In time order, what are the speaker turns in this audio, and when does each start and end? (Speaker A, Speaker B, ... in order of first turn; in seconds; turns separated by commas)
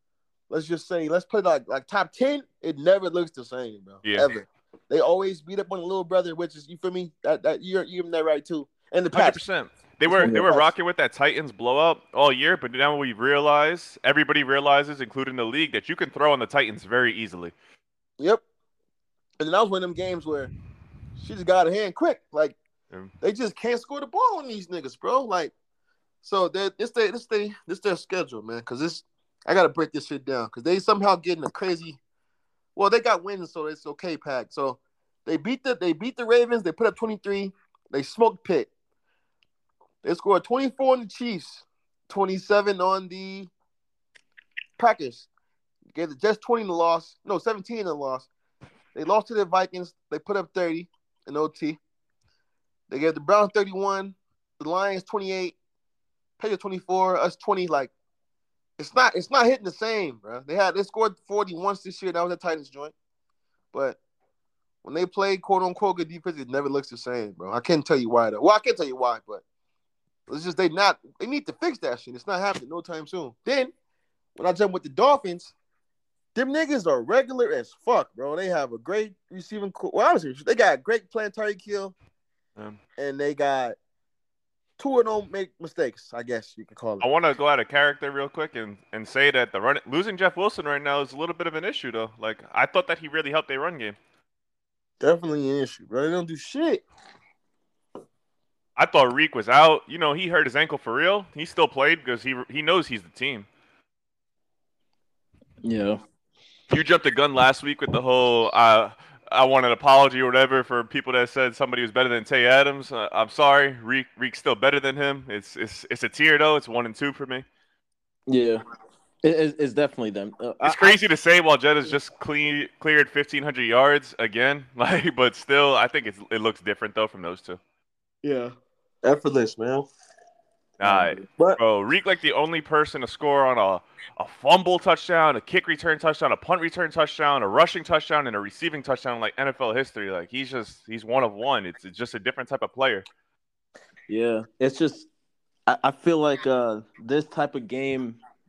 Speaker A: 0.5-9.4, Speaker B: 4.0-4.3, Speaker B: 9.1-17.5, Speaker A: 10.0-10.7, Speaker A: 18.2-18.4, Speaker A: 19.4-20.5, Speaker A: 21.2-22.6, Speaker A: 23.2-25.5, Speaker A: 26.2-32.0, Speaker A: 32.8-38.7, Speaker A: 40.0-43.5, Speaker A: 44.8-45.3, Speaker A: 45.9-48.3, Speaker A: 48.9-51.8, Speaker A: 52.9-55.5, Speaker A: 56.4-57.9, Speaker A: 58.8-62.9, Speaker A: 63.7-64.0, Speaker A: 64.8-69.4, Speaker A: 70.3-73.7, Speaker A: 74.3-75.5, Speaker A: 76.3-82.0, Speaker A: 83.0-83.8, Speaker A: 84.8-87.0, Speaker B: 87.0-94.0, Speaker A: 95.0-96.8, Speaker B: 98.8-103.5, Speaker C: 105.6-106.0, Speaker B: 106.7-117.4, Speaker C: 118.3-118.6, Speaker C: 119.2-121.0, Speaker B: 120.6-127.6, Speaker A: 128.2-129.9, Speaker B: 130.8-143.1, Speaker A: 130.8-131.6, Speaker C: 144.1-145.1, Speaker C: 145.7-148.2